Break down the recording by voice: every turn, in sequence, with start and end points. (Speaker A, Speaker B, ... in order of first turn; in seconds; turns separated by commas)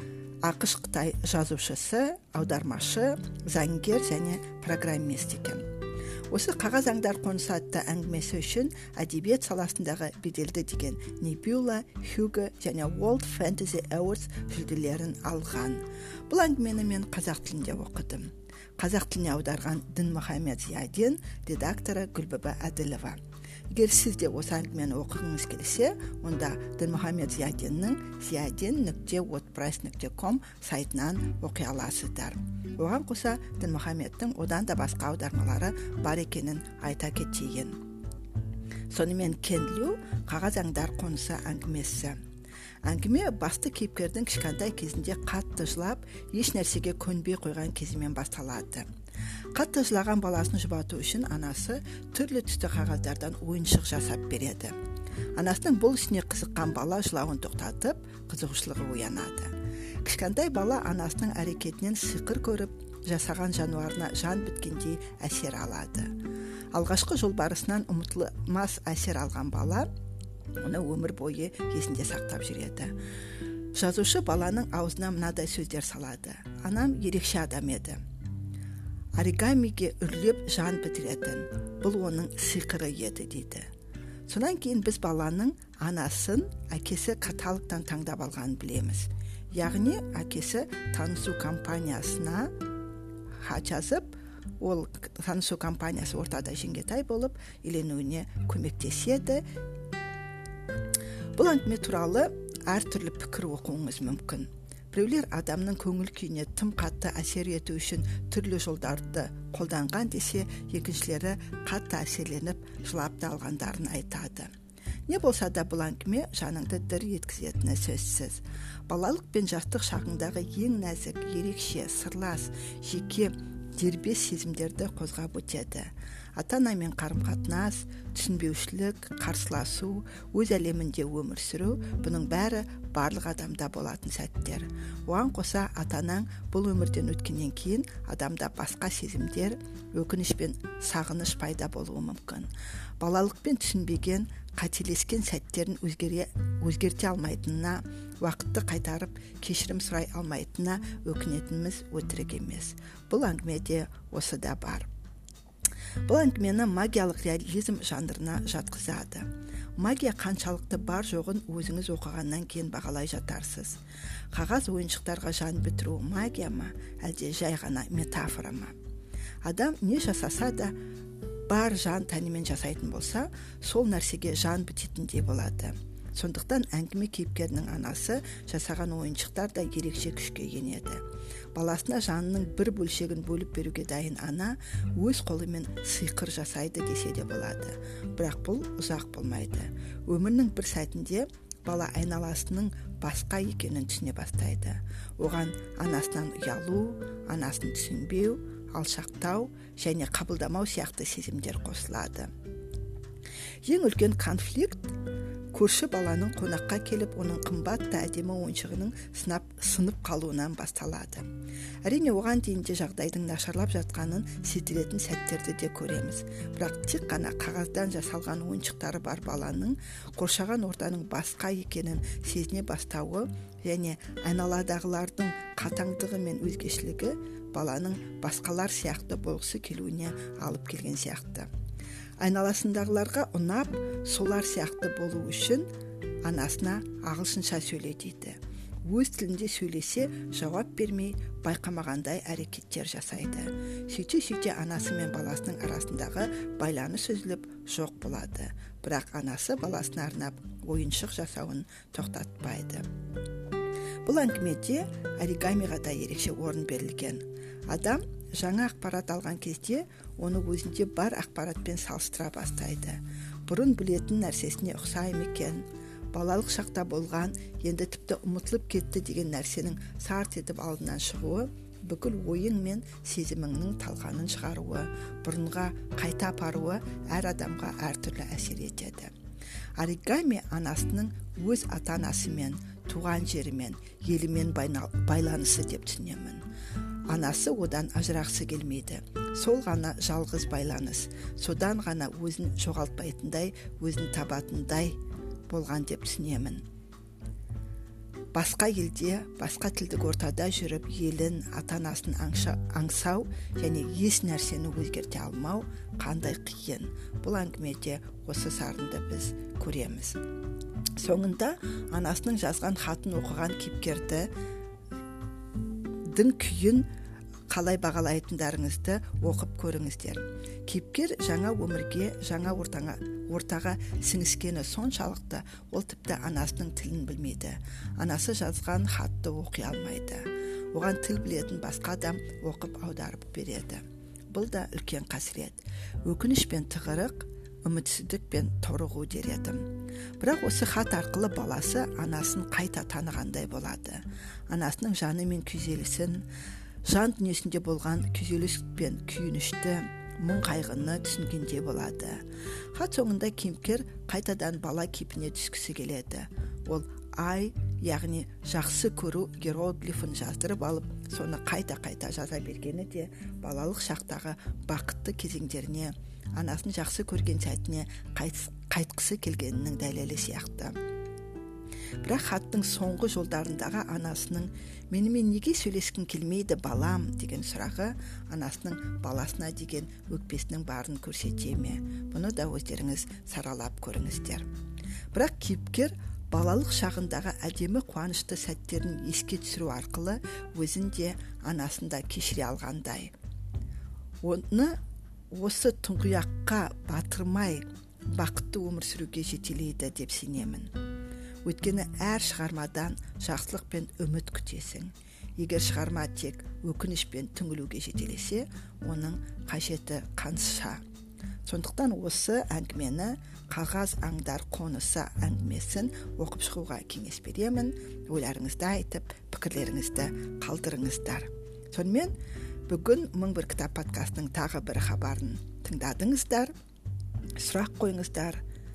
Speaker A: 0.4-5.6, Speaker A: 6.3-23.2, Speaker A: 23.7-37.8, Speaker A: 38.9-42.2, Speaker A: 42.9-48.9, Speaker A: 49.5-54.8, Speaker A: 55.4-59.5, Speaker A: 60.0-66.1, Speaker A: 66.7-69.9, Speaker A: 70.6-72.9, Speaker A: 73.8-78.0, Speaker A: 79.2-83.7, Speaker A: 84.3-92.5, Speaker A: 93.4-99.4, Speaker A: 101.3-114.5, Speaker A: 115.1-142.5, Speaker A: 143.0-154.9, Speaker A: 156.1-159.3, Speaker A: 159.8-163.8, Speaker A: 164.3-168.7, Speaker A: 169.4-170.7, Speaker A: 171.5-181.0, Speaker A: 181.5-202.3, Speaker A: 203.7-204.9, Speaker A: 205.5-211.3, Speaker A: 211.8-231.5, Speaker A: 232.2-235.7, Speaker A: 236.3-238.4, Speaker A: 238.9-252.9, Speaker A: 254.1-279.1, Speaker A: 279.8-286.4, Speaker A: 287.1-295.0, Speaker A: 295.5-296.6, Speaker A: 298.3-310.2, Speaker A: 311.0-314.3, Speaker A: 316.1-316.9, Speaker A: 317.5-333.8, Speaker A: 334.3-339.6, Speaker A: 340.2-346.2, Speaker A: 346.9-352.2, Speaker A: 352.7-370.7, Speaker A: 372.0-384.5, Speaker A: 385.1-393.1, Speaker A: 394.2-394.8, Speaker A: 395.3-400.7, Speaker A: 401.4-410.8, Speaker A: 411.5-422.1, Speaker A: 422.7-426.5, Speaker A: 427.4-428.4